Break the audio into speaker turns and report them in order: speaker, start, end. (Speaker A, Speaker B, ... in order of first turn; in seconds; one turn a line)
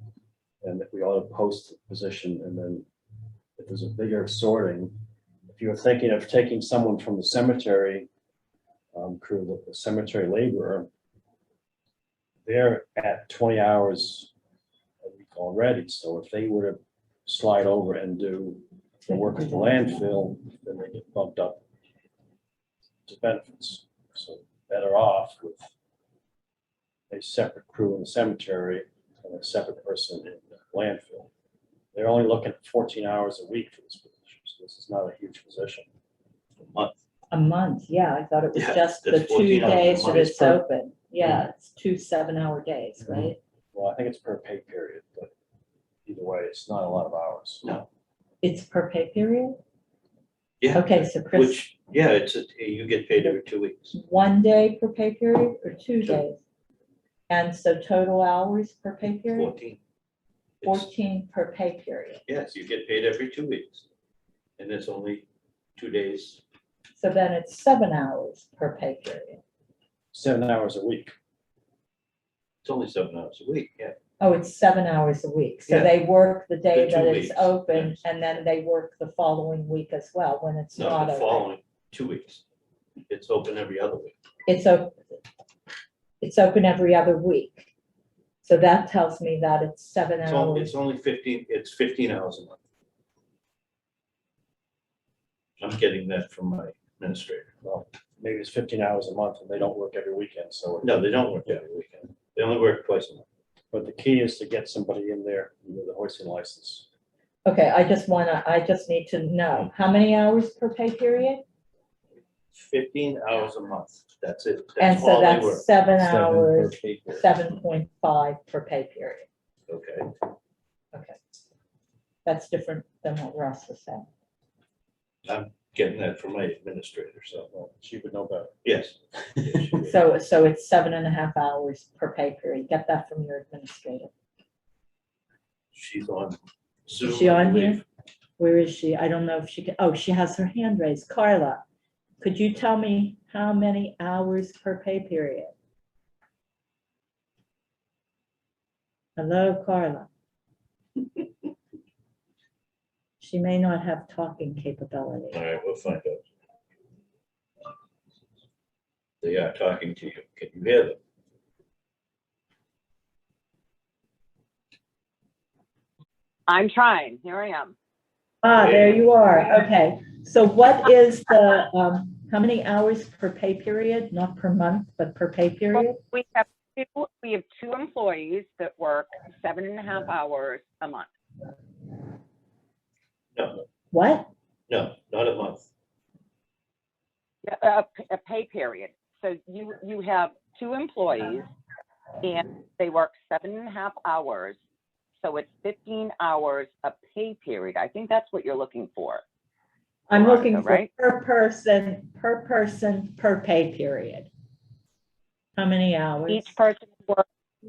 Speaker A: 0.6-2.9
Speaker A: 3.6-4.9
Speaker A: 5.5-8.1
Speaker A: 8.9-10.9
Speaker A: 12.4-14.3
Speaker A: 15.0-21.6
Speaker A: 23.1-25.7
Speaker A: 27.1-31.3
Speaker A: 31.9-35.9
Speaker B: 36.6-36.9
Speaker C: 37.3-43.4
Speaker B: 38.5-40.6
Speaker A: 43.2-45.3
Speaker A: 46.0-47.6
Speaker C: 48.4-49.6
Speaker B: 50.6-53.9
Speaker C: 50.7-51.6
Speaker C: 53.9-56.4
Speaker C: 57.3-59.5
Speaker B: 59.3-59.8
Speaker B: 60.6-60.9
Speaker C: 60.6-62.2
Speaker B: 62.3-63.8
Speaker B: 64.6-65.2
Speaker B: 65.8-66.4
Speaker C: 67.0-69.4
Speaker A: 70.1-71.1
Speaker B: 72.6-74.0
Speaker C: 74.2-81.5
Speaker B: 76.7-78.0
Speaker B: 80.7-82.4
Speaker B: 83.1-84.1
Speaker C: 84.5-85.0
Speaker C: 86.2-87.7
Speaker C: 88.4-90.7
Speaker B: 90.2-92.6
Speaker B: 95.6-97.5
Speaker A: 97.6-101.6
Speaker B: 100.8-103.2
Speaker A: 103.7-106.9
Speaker C: 107.5-111.4
Speaker B: 112.5-115.6
Speaker C: 114.8-119.2
Speaker A: 116.0-117.3
Speaker B: 119.7-120.1
Speaker C: 122.2-124.1
Speaker B: 125.2-127.5
Speaker A: 127.5-128.5
Speaker B: 128.6-129.9
Speaker C: 129.9-134.1
Speaker B: 135.7-137.8
Speaker C: 137.0-137.8
Speaker C: 138.4-141.6
Speaker C: 142.2-145.5
Speaker C: 149.2-150.1
Speaker C: 153.2-155.4
Speaker B: 155.3-156.2
Speaker B: 159.2-161.0
Speaker D: 166.5-167.7
Speaker C: 168.4-176.0
Speaker B: 168.5-169.0
Speaker D: 175.7-181.1
Speaker B: 183.3-183.6
Speaker C: 183.9-184.3
Speaker B: 184.7-185.7
Speaker D: 187.4-191.5
Speaker D: 192.2-194.6
Speaker D: 195.2-199.2
Speaker C: 200.1-204.3
Speaker D: 200.1-200.9
Speaker C: 205.6-206.6
Speaker D: 206.3-207.2